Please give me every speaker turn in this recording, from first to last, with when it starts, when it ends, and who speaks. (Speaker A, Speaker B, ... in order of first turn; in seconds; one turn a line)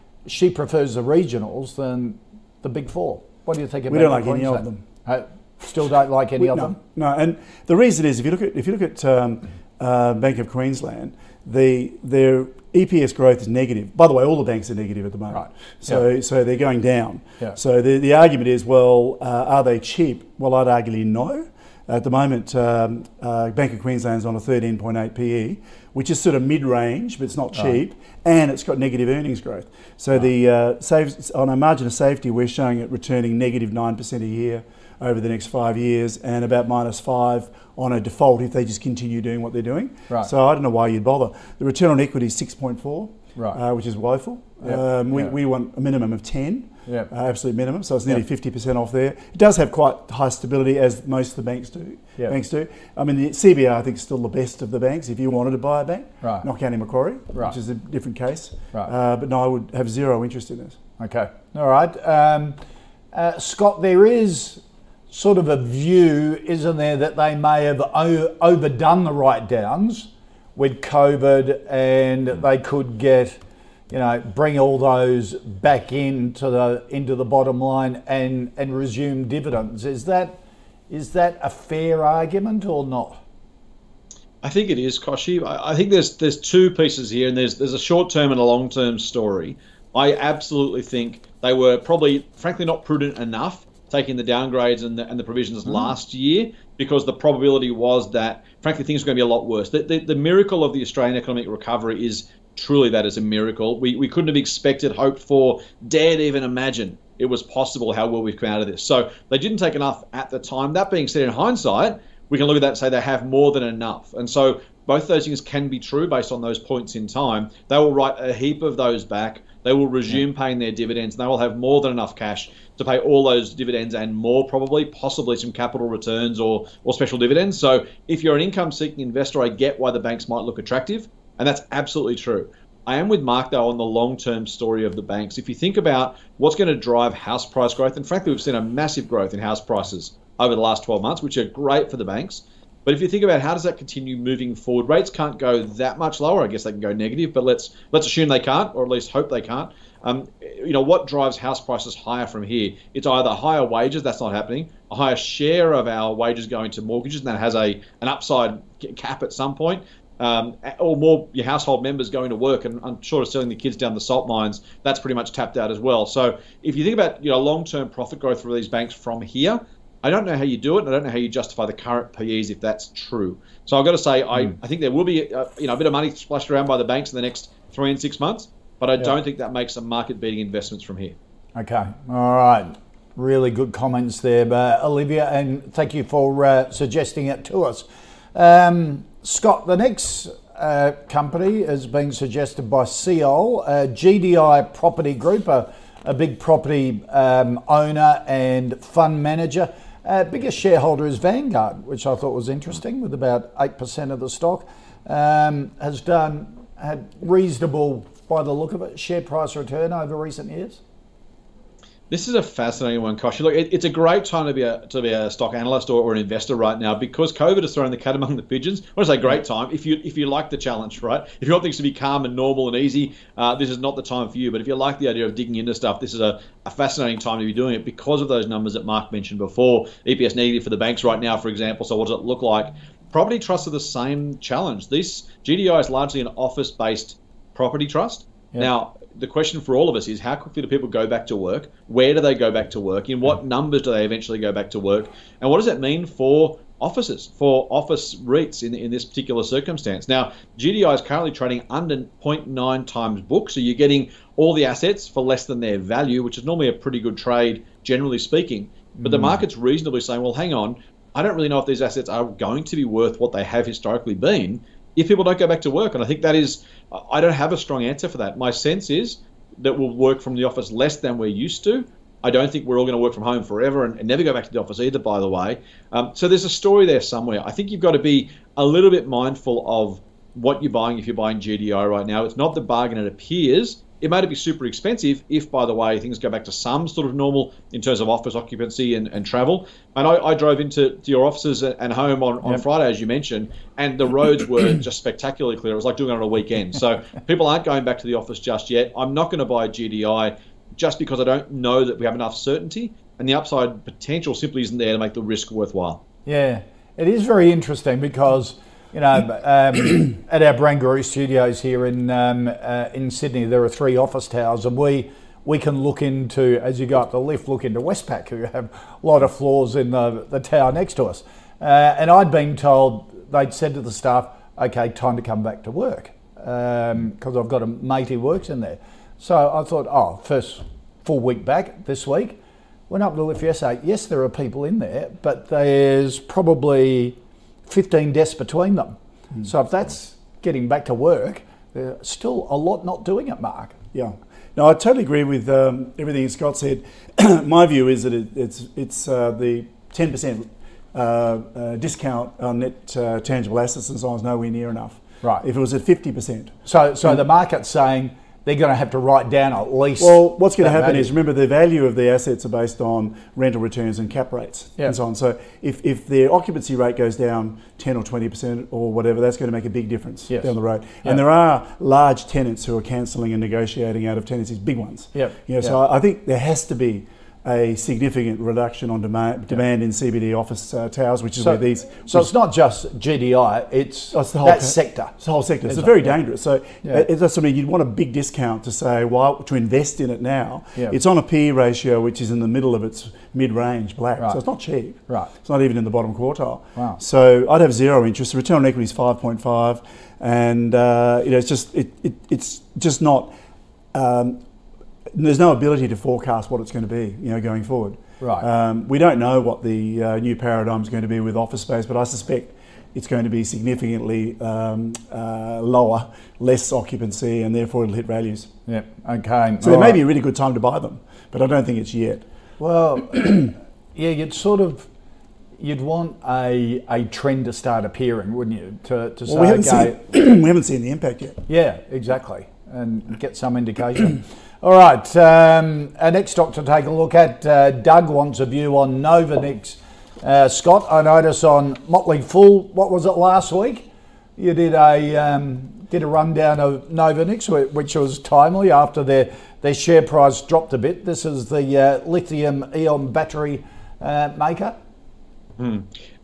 Speaker A: 0.2-6.8
Speaker B: 3.9-4.8
Speaker B: 6.4-60.8
Speaker A: 15.3-16.0
Speaker A: 44.6-45.3
Speaker A: 56.2-56.5
Speaker A: 61.0-62.6
Speaker A: 63.1-73.4
Speaker A: 73.9-83.2
Speaker C: 84.4-181.1
Speaker A: 181.6-210.8
Speaker C: 212.1-306.0
Speaker A: 259.0-259.4
Speaker A: 306.2-343.8
Speaker B: 343.9-357.2
Speaker A: 356.6-361.1
Speaker B: 360.0-382.3
Speaker A: 375.1-375.8
Speaker A: 381.4-385.1
Speaker B: 384.1-403.3
Speaker A: 385.6-386.2
Speaker B: 403.9-404.4
Speaker B: 405.1-418.5
Speaker A: 408.2-408.4
Speaker A: 418.7-420.0
Speaker B: 419.6-422.2
Speaker A: 422.6-424.9
Speaker A: 425.6-430.0
Speaker B: 429.2-431.4
Speaker A: 431.5-454.8
Speaker C: 455.6-455.9